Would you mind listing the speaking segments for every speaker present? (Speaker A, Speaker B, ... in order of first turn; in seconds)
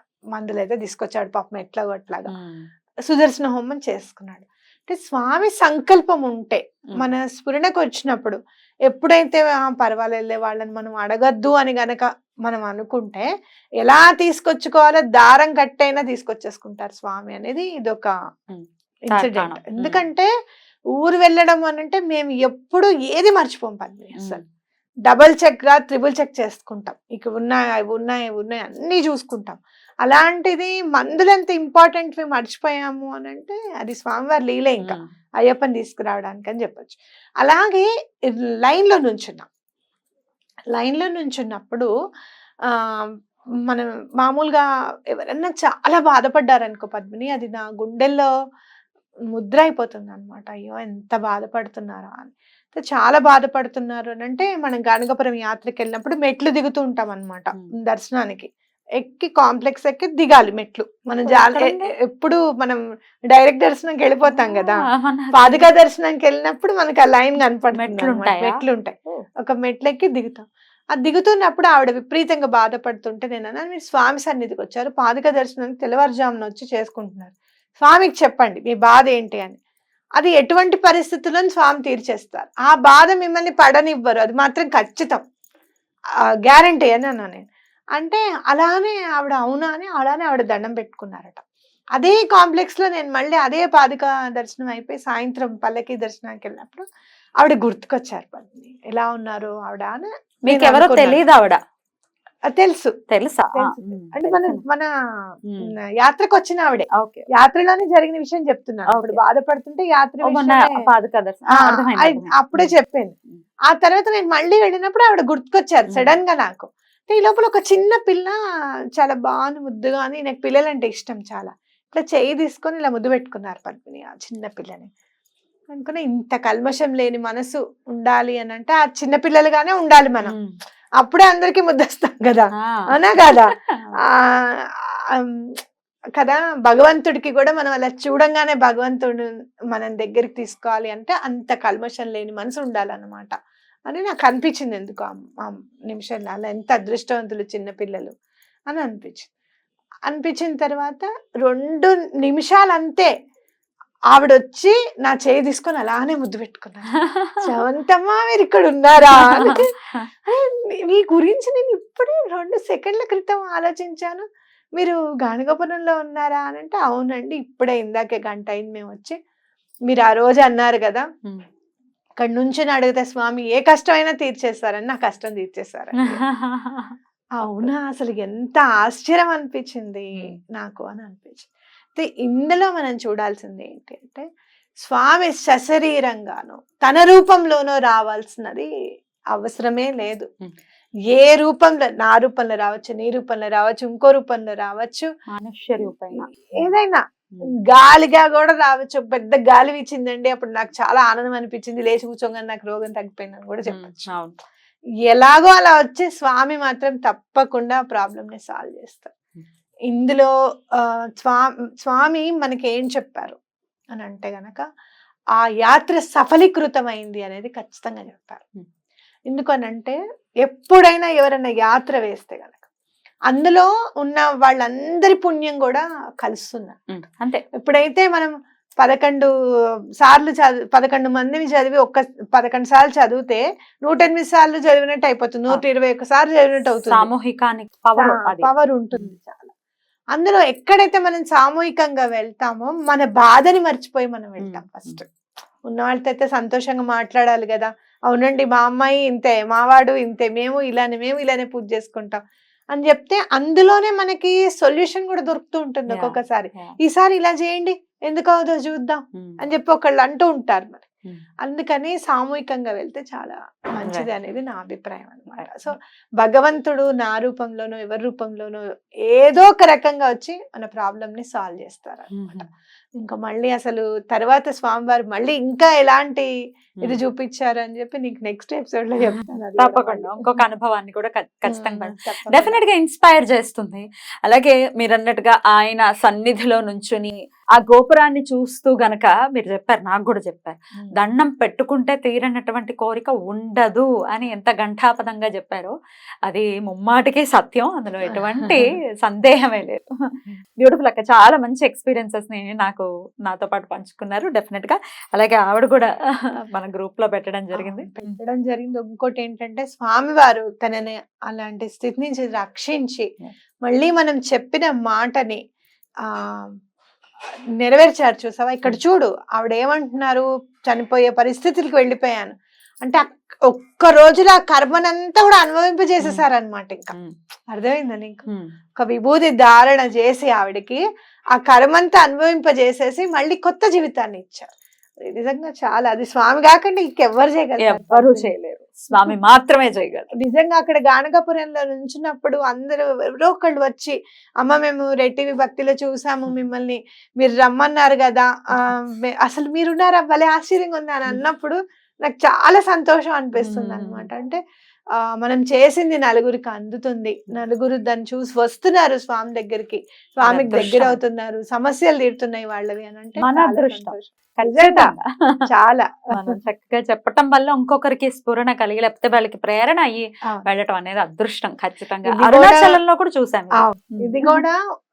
Speaker A: 0.3-2.3, 3.1-13.3, 13.8-18.1, 19.1-20.3, 21.0-24.4, 25.1-39.5, 40.7-41.9, 42.7-43.1, 43.7-48.3, 49.3-79.6, 80.2-85.2, 86.4-91.4, 92.0-96.8, 97.4-101.2, 102.5-102.9, 103.5-104.9, 106.0-110.8, 111.6-113.1, 113.7-118.3, 119.0-124.9, 125.7-130.3, 131.0-133.5, 134.1-134.5, 135.1-135.4, 136.2-143.3, 143.9-148.1, 148.7-149.3, 150.1-153.1, 154.1-156.9, 157.4-159.7, 160.2-164.2, 164.8-169.2, 169.9-171.1, 172.2-176.2, 177.4-184.2, 184.8-188.7, 189.3-190.3, 191.1-195.1, 195.8-197.0, 197.7-204.1, 205.1-209.1, 209.9-213.4, 213.9-214.6, 215.3-218.4, 219.3-222.6, 223.3-226.8, 227.6-229.3, 230.0-237.1, 238.0-239.5, 240.1-245.1, 245.7-252.2, 252.7-260.9, 261.4-272.5, 273.0-276.3, 276.8-280.2, 281.5-282.6, 298.1-298.6, 307.5-313.1, 313.6-315.4, 316.1-316.5, 317.6-326.9, 327.5-328.2, 328.8-330.8, 331.3-334.5, 335.1-338.3, 340.2-354.4, 355.0-364.9, 365.5-366.3, 372.1-372.8, 373.6-374.6
Speaker B: 2.3-2.7, 18.5-20.0, 24.2-24.4, 34.8-35.1, 61.2-61.9, 64.3-65.4, 67.7-69.2, 100.5-101.6, 103.1-104.6, 106.9-107.2, 108.9-109.2, 110.2-112.7, 115.9-116.1, 130.2-130.6, 132.6-134.0, 157.1-157.4, 159.0-160.1, 176.1-176.9, 195.3-196.8, 203.6-204.4, 226.9-227.4, 236.8-239.1, 244.4-245.0, 255.9-256.8, 265.3-265.7, 272.1-272.5, 279.1-295.7, 296.2-299.8, 300.6-305.9, 306.5-308.2, 337.6-340.1, 353.4-354.1, 360.2-361.0, 363.2-365.5, 366.1-374.4